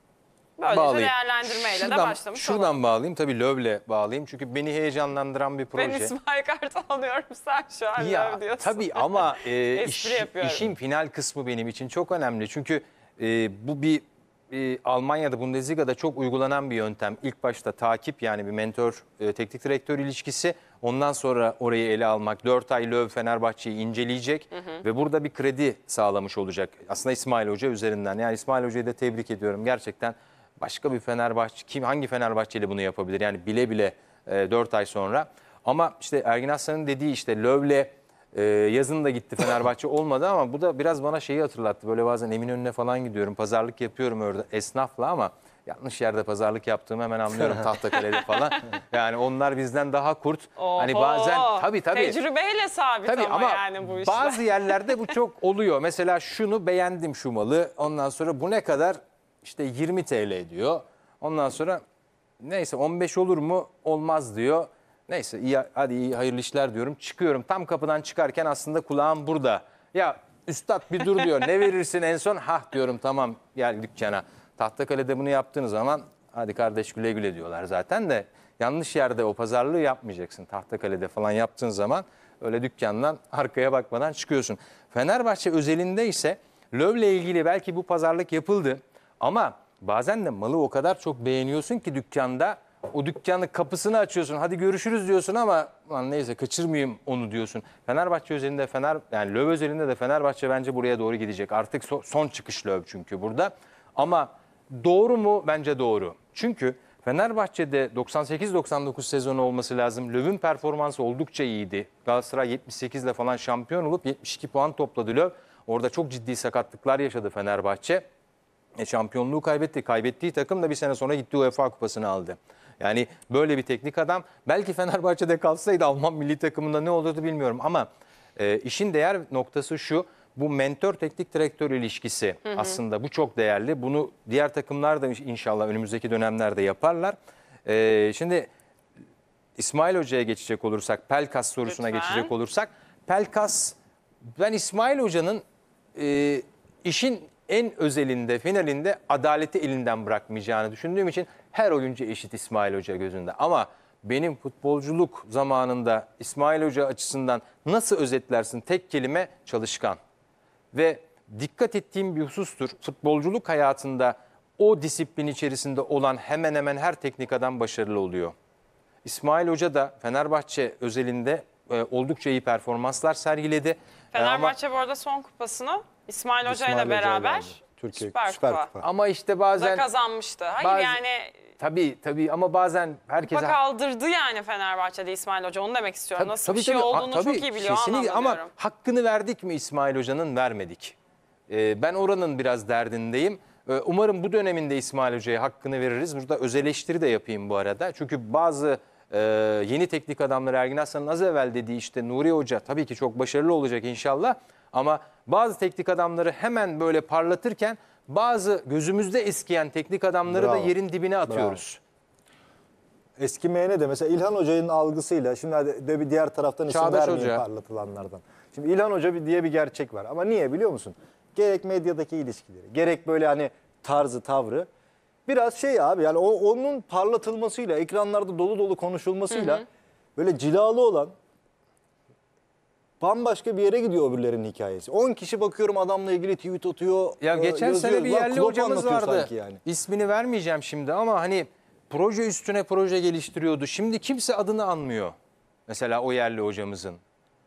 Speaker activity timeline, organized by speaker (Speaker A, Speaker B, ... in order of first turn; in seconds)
Speaker A: 0.6-2.8, 5.7-10.7, 24.5-24.8, 48.3-48.5, 50.5-55.0, 141.7-142.3, 174.1-178.7, 179.6-181.4, 183.2-188.5
Speaker B: 0.7-6.1, 8.0-52.2, 53.0-61.8, 62.4-118.0, 118.8-138.5, 139.6-143.8, 144.3-145.4, 145.9-160.0, 160.7-168.3, 169.0-174.5, 178.8-179.8, 180.6-181.0, 181.6-183.6, 186.2-190.9, 191.5-211.8, 216.7-217.4, 237.2-245.1, 245.7-247.0
Speaker C: 176.4-178.9, 210.2-210.7, 211.3-211.6, 213.2-224.7, 225.2-229.6, 230.2-231.1, 233.0-239.6